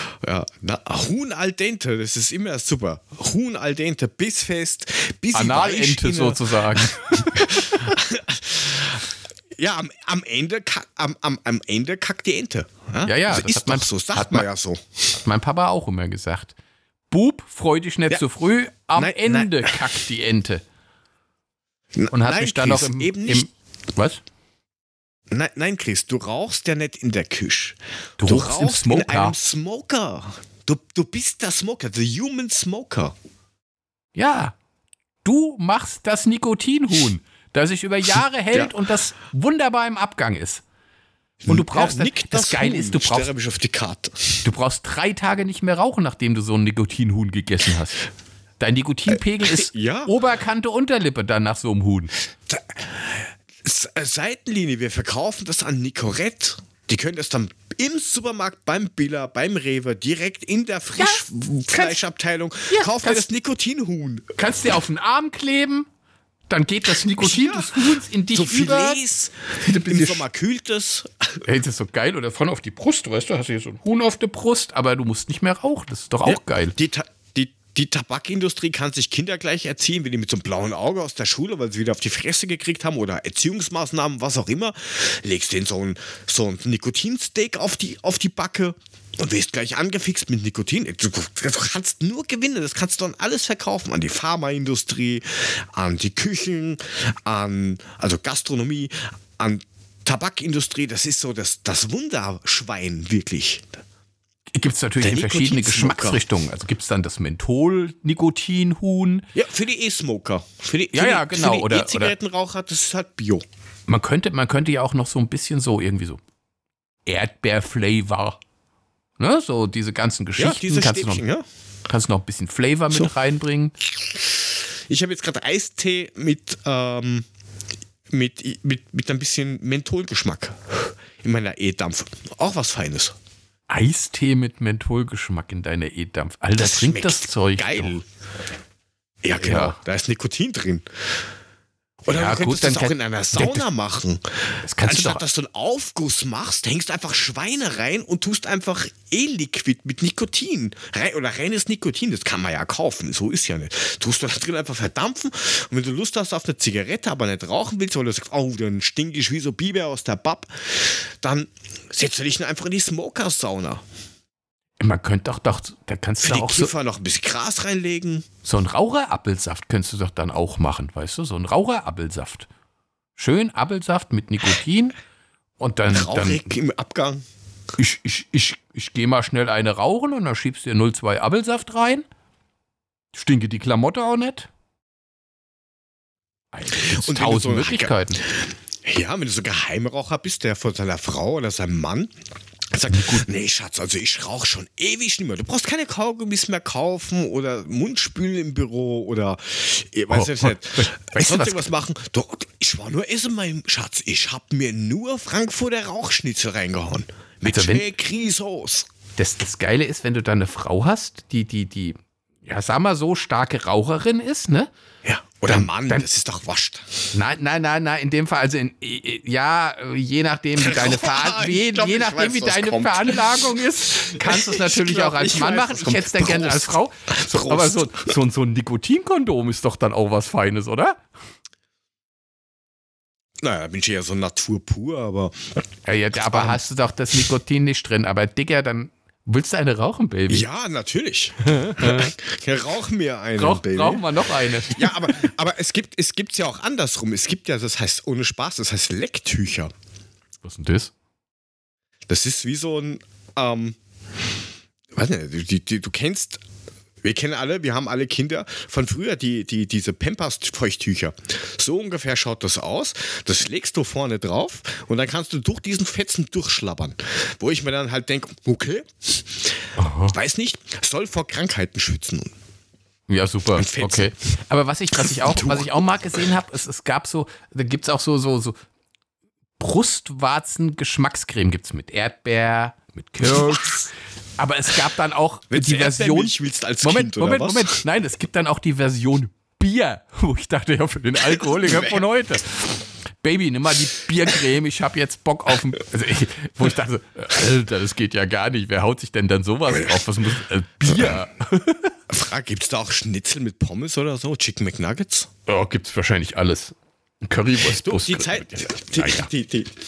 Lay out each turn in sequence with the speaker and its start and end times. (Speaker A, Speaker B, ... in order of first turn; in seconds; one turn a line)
Speaker A: 0.2-15.2
Speaker B: 5.3-8.0
Speaker B: 13.1-14.4
Speaker B: 15.2-16.5
Speaker B: 17.1-20.6
Speaker A: 19.0-19.9
Speaker A: 21.9-23.5
Speaker B: 22.1-24.2
Speaker A: 25.3-33.1
Speaker B: 28.2-29.4
Speaker B: 34.1-34.5
Speaker B: 35.2-40.6
Speaker A: 41.4-44.5
Speaker B: 41.5-43.3
Speaker B: 44.4-48.1
Speaker B: 48.6-52.1
Speaker A: 49.1-50.1
Speaker A: 52.5-64.4
Speaker B: 61.0-62.0
Speaker B: 62.7-63.3
Speaker B: 64.4-65.9
Speaker B: 66.5-69.0
Speaker A: 67.2-71.5
Speaker B: 69.6-70.3
Speaker B: 71.5-76.8
Speaker A: 76.2-103.8
Speaker B: 104.5-109.2
Speaker A: 105.0-106.2
Speaker A: 109.3-113.4
Speaker B: 110.9-112.1
Speaker B: 113.9-116.2
Speaker B: 117.1-118.4
Speaker B: 119.2-121.2
Speaker A: 120.4-121.4
Speaker B: 121.9-123.7
Speaker A: 124.9-127.3
Speaker A: 128.1-133.2
Speaker B: 133.7-138.0
Speaker A: 136.6-138.0
Speaker A: 139.2-140.8
Speaker B: 139.4-139.8
Speaker A: 142.1-163.8
Speaker B: 142.1-143.7
Speaker B: 144.6-145.2
Speaker B: 164.8-166.7
Speaker A: 166.2-168.3
Speaker B: 168.4-172.5
Speaker B: 173.2-175.0
Speaker B: 175.6-176.5
Speaker A: 175.9-177.2
Speaker B: 177.8-182.1
Speaker B: 183.1-184.5
Speaker B: 186.5-188.2
Speaker A: 186.8-192.1
Speaker A: 192.7-208.9
Speaker B: 192.9-193.2
Speaker B: 200.1-201.7
Speaker B: 207.5-207.8
Speaker B: 209.2-214.7
Speaker A: 215.1-217.1
Speaker B: 215.5-216.1
Speaker B: 217.1-231.0
Speaker A: 220.6-228.1
Speaker A: 233.4-235.6
Speaker B: 235.9-240.5
Speaker A: 236.1-236.6
Speaker A: 240.3-249.7
Speaker B: 241.5-242.1
Speaker B: 243.4-245.3
Speaker B: 250.4-250.9
Speaker A: 252.1-253.8
Speaker A: 255.0-256.4
Speaker A: 257.0-272.3
Speaker B: 269.8-270.1
Speaker B: 273.1-278.6
Speaker A: 273.6-274.1
Speaker A: 275.0-275.9
Speaker B: 279.6-301.9
Speaker A: 283.3-283.7
Speaker A: 285.5-287.8
Speaker A: 291.6-292.0
Speaker A: 302.1-305.3
Speaker B: 305.5-309.3
Speaker A: 307.6-309.7